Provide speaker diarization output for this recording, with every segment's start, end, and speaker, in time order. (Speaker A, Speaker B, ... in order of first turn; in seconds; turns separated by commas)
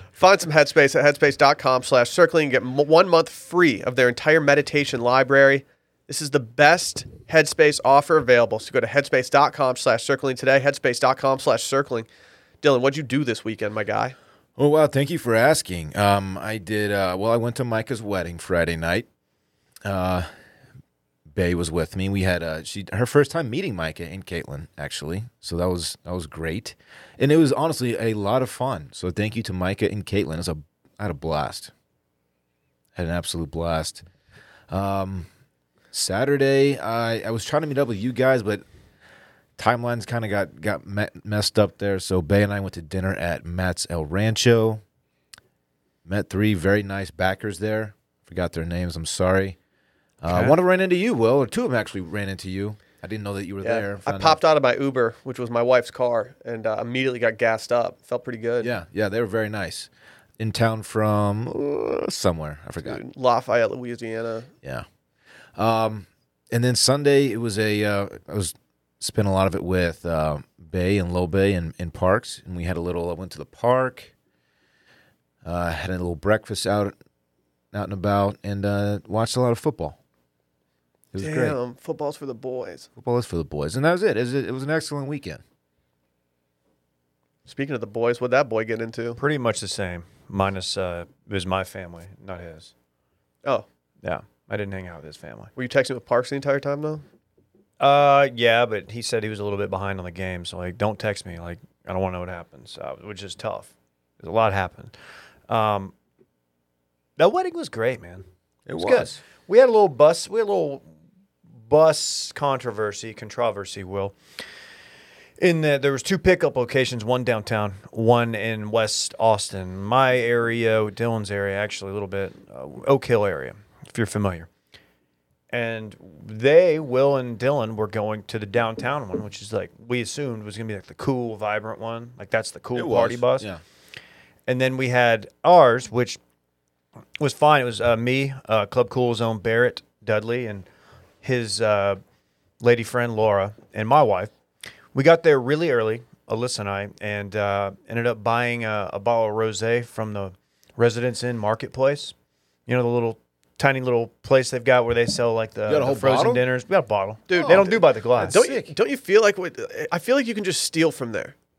Speaker A: 0.2-12.1, Speaker A: 12.6-14.2, Speaker B: 14.6-19.1, Speaker B: 19.8-20.3, Speaker B: 21.3-31.7, Speaker B: 33.0-34.0, Speaker B: 34.7-35.3, Speaker B: 35.9-38.6, Speaker B: 39.6-44.8, Speaker B: 46.0-49.6, Speaker B: 50.2-54.4, Speaker C: 50.3-50.6, Speaker A: 53.6-58.7, Speaker B: 58.6-63.0, Speaker A: 62.8-64.5, Speaker B: 65.5-74.1, Speaker B: 75.4-77.0, Speaker B: 77.7-80.0, Speaker B: 81.1-81.6, Speaker A: 81.2-82.9, Speaker B: 83.0-85.4, Speaker A: 87.5-89.2, Speaker C: 89.2-92.7, Speaker C: 94.0-95.5, Speaker A: 95.6-97.0, Speaker C: 97.8-104.9, Speaker C: 105.5-105.9, Speaker C: 107.2-108.3, Speaker B: 108.7-109.2, Speaker C: 108.8-110.9, Speaker C: 111.7-114.2, Speaker C: 115.4-124.5, Speaker C: 125.5-133.5, Speaker B: 132.8-133.6, Speaker C: 134.5-136.2, Speaker C: 137.2-140.7, Speaker C: 141.2-142.0, Speaker C: 142.6-144.3, Speaker C: 144.9-152.1, Speaker C: 152.7-158.4, Speaker B: 155.7-156.5, Speaker A: 157.3-161.3, Speaker B: 157.3-158.7